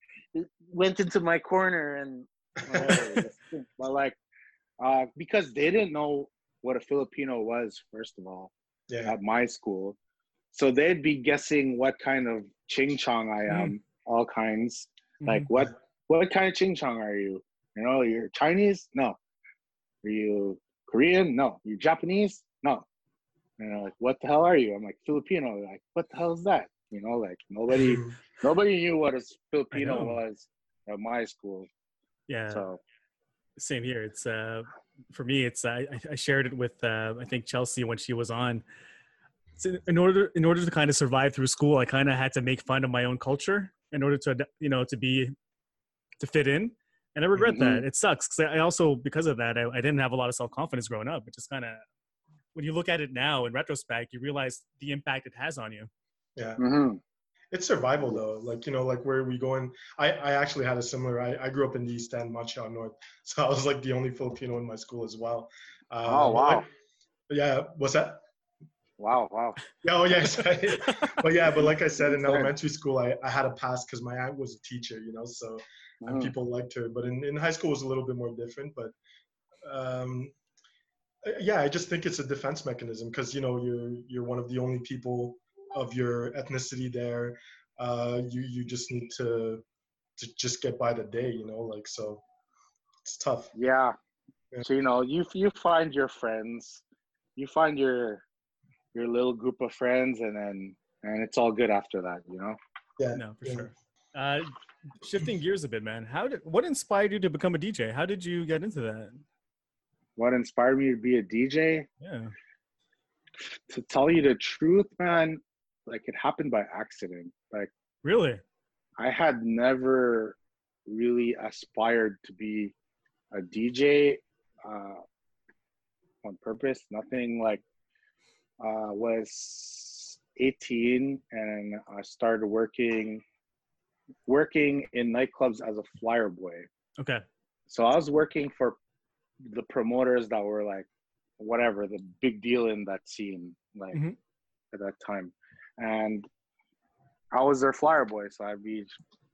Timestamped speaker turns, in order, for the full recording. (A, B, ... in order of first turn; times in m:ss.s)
0:00.3-0:04.2 A
0:02.7-0:03.2 B
0:04.8-0:08.5 A
0:08.9-0:09.1 B
0:09.0-0:10.0 A
0:10.5-0:19.2 A
0:13.5-0:13.7 C
0:15.2-0:15.5 C
0:20.0-0:22.8 A
0:23.6-0:31.7 A
0:27.7-0:28.1 B
0:29.7-0:30.2 C
0:32.3-0:32.6 C
0:32.5-0:32.8 A
0:33.6-0:38.6 C
0:39.6-0:45.3 C
0:46.2-0:51.8 C
0:47.4-0:47.8 A
0:52.5-0:55.9 C
0:56.4-0:56.6 B
0:56.6-0:57.0 A
0:57.5-1:06.7 B
1:06.0-1:06.6 A
1:07.3-1:08.2 B
1:09.0-1:09.6 A
1:09.8-1:18.9 B
1:12.0-1:12.5 A
1:16.0-1:16.3 A
1:19.6-1:20.3 B
1:21.2-1:29.6 B
1:30.2-1:32.2 B
1:33.0-1:33.5 B
1:33.5-1:33.9 A
1:34.6-1:36.8 A
1:37.4-1:38.2 A
1:38.9-1:42.6 A
1:43.0-1:43.7 B
1:43.1-1:49.2 C
1:50.2-1:51.9 A
1:52.0-1:52.3 C
1:53.4-1:57.7 A
1:58.0-1:58.4 C
1:59.0-2:02.7 A
2:03.3-2:05.0 A
2:06.2-2:07.6 A
2:08.6-2:13.2 A
2:14.3-2:16.7 A
2:17.0-2:17.2 C
2:17.7-2:18.8 A
2:19.4-2:20.9 A
2:21.4-2:24.0 A
2:24.7-2:26.3 A
2:27.3-2:28.9 A